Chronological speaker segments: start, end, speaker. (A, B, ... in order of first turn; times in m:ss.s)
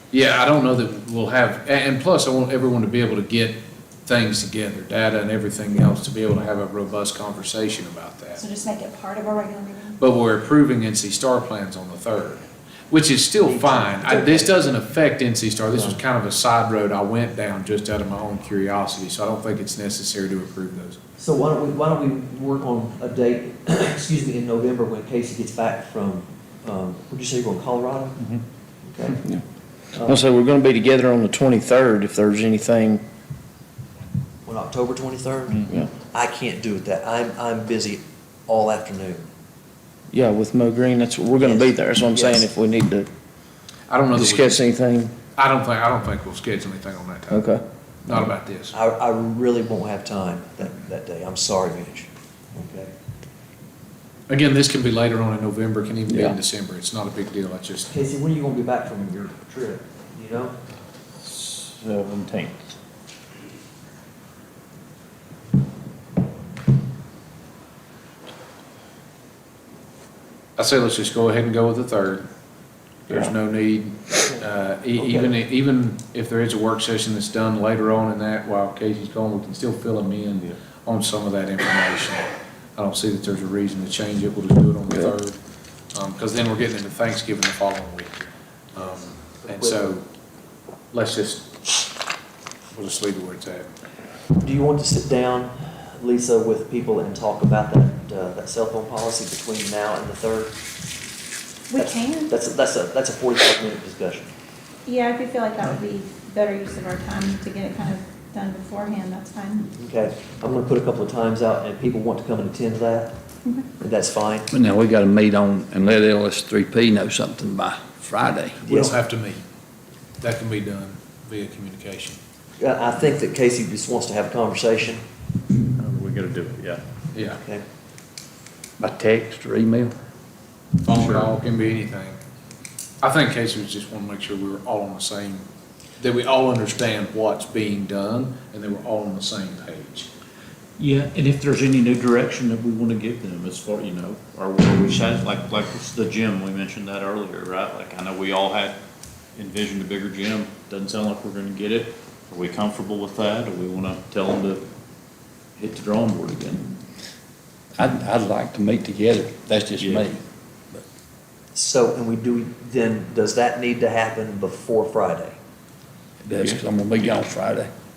0:00.1-0:08.4 A
0:08.4-0:10.0 B
0:10.0-0:21.0 A
0:13.4-0:14.7 C
0:15.7-0:16.0 C
0:21.2-0:28.2 C
0:28.8-0:29.2 C
0:29.9-0:30.2 C
0:30.0-0:33.0 D
0:34.4-0:39.2 C
0:40.1-0:43.1 D
0:41.4-0:42.5 C
0:43.9-0:44.7 A
0:44.1-0:45.2 D
0:45.4-0:47.5 A
0:47.3-0:47.6 D
0:48.0-0:48.7 A
0:48.7-0:52.9 C
0:54.3-0:57.9 A
0:57.9-1:00.5 C
1:01.2-1:02.7 E
1:10.6-1:12.3 A
1:13.1-1:25.4 A
1:15.0-1:15.3 C
1:25.9-1:28.2 A
1:28.7-1:30.0 A
1:28.8-1:30.0 C
1:30.9-1:31.5 A
1:32.7-1:33.7 A
1:34.4-1:40.6 C
1:41.7-1:42.3 B
1:41.7-1:44.3 C
1:44.8-1:49.7 B
1:49.7-1:53.1 C
1:53.8-1:54.5 C
1:54.5-1:58.6 F
1:58.6-1:59.4 A
1:58.7-1:58.9 C
2:00.2-2:02.2 A
2:02.6-2:05.0 C
2:05.7-2:06.8 E
2:07.1-2:07.4 A
2:07.2-2:07.6 C
2:08.8-2:09.9 F
2:10.8-2:12.2 A
2:10.9-2:11.3 F
2:13.0-2:15.4 A
2:16.0-2:20.1 A
2:20.8-2:28.8 E
2:29.4-2:34.7 E
2:35.6-2:36.7 E
2:37.8-2:40.8 F
2:39.8-2:40.1 E
2:41.5-2:45.4 C
2:46.2-2:47.7 F